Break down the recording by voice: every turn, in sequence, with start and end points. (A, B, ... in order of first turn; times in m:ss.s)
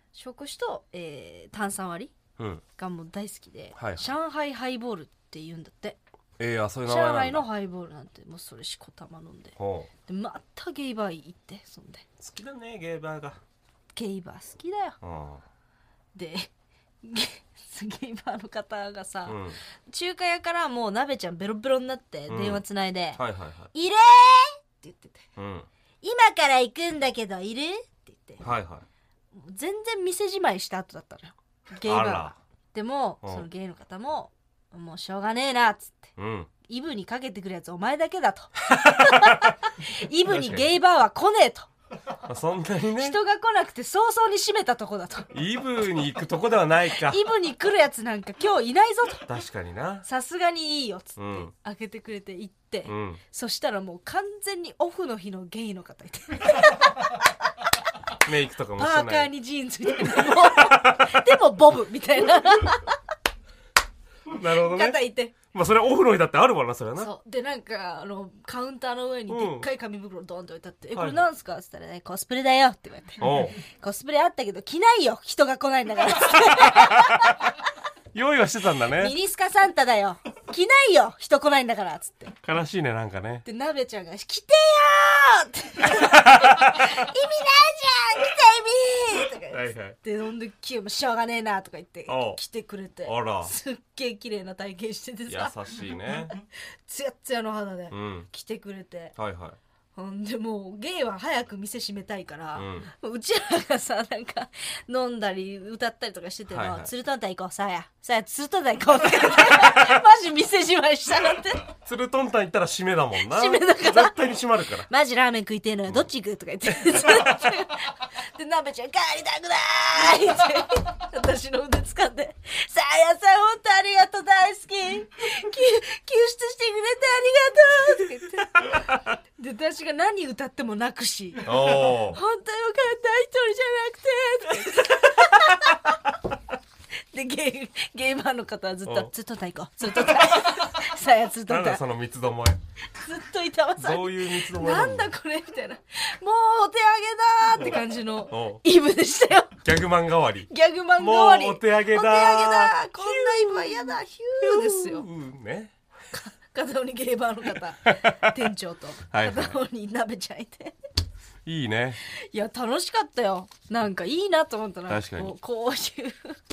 0:00.1-0:02.1 A
0:02.8-0:06.0 A
0:03.8-0:04.1 B
0:06.4-0:07.5 B
0:06.9-0:12.0 A
0:09.6-0:09.9 B
0:12.2-0:13.4 B
0:13.9-0:15.0 A
0:15.0-0:15.4 B
0:16.1-0:16.5 A
0:17.0-0:23.2 A
0:19.3-0:19.6 B
0:22.3-0:22.6 B
0:23.2-0:23.7 B
0:23.7-0:25.2 A
0:25.4-0:25.7 B
0:26.0-0:28.4 A
0:28.4-0:28.8 B
0:29.3-0:36.1 A
0:31.8-0:32.4 B
0:36.2-0:36.5 B
0:36.6-0:41.7 A
0:38.8-0:39.5 B
0:40.3-0:40.8 B
0:42.2-0:43.2 B
0:43.0-0:45.3 A
0:45.3-0:47.3 B
0:47.0-0:49.3 A
0:49.3-0:50.0 B
0:50.0-0:57.3 A
0:51.2-0:51.5 B
0:52.9-0:53.2 B
0:58.2-0:59.3 B
0:58.8-1:03.0 A
1:00.0-1:01.2 B
1:04.3-1:07.1 B
1:04.5-1:05.4 A
1:07.0-1:17.6 A
1:09.3-1:09.7 B
1:11.0-1:11.3 B
1:13.2-1:13.6 B
1:16.4-1:17.3 B
1:18.1-1:19.1 B
1:19.0-1:22.4 A
1:22.4-1:23.4 B
1:23.4-1:35.6 A
1:26.0-1:26.8 B
1:29.5-1:30.0 B
1:32.1-1:32.4 B
1:33.0-1:33.5 B
1:35.3-1:36.4 B
1:36.8-1:39.2 A
1:37.9-1:38.3 B
1:39.2-1:39.6 B
1:40.0-1:51.7 A
1:42.6-1:42.9 B
1:46.5-1:46.9 B
1:51.8-1:54.9 B
1:53.2-1:54.2 A
1:54.9-2:08.8 A
2:09.4-2:16.0 A
2:11.4-2:12.2 B
2:17.1-2:21.8 A
2:21.5-2:22.6 B
2:22.9-2:29.6 A
2:23.8-2:25.1 B
2:28.3-2:28.6 B
2:29.6-2:35.7 B
2:30.5-2:35.1 A
2:36.1-2:40.8 A
2:37.9-2:38.3 B
2:39.1-2:39.6 B
2:41.5-2:42.0 B
2:42.1-2:46.4 A
2:44.9-2:45.3 B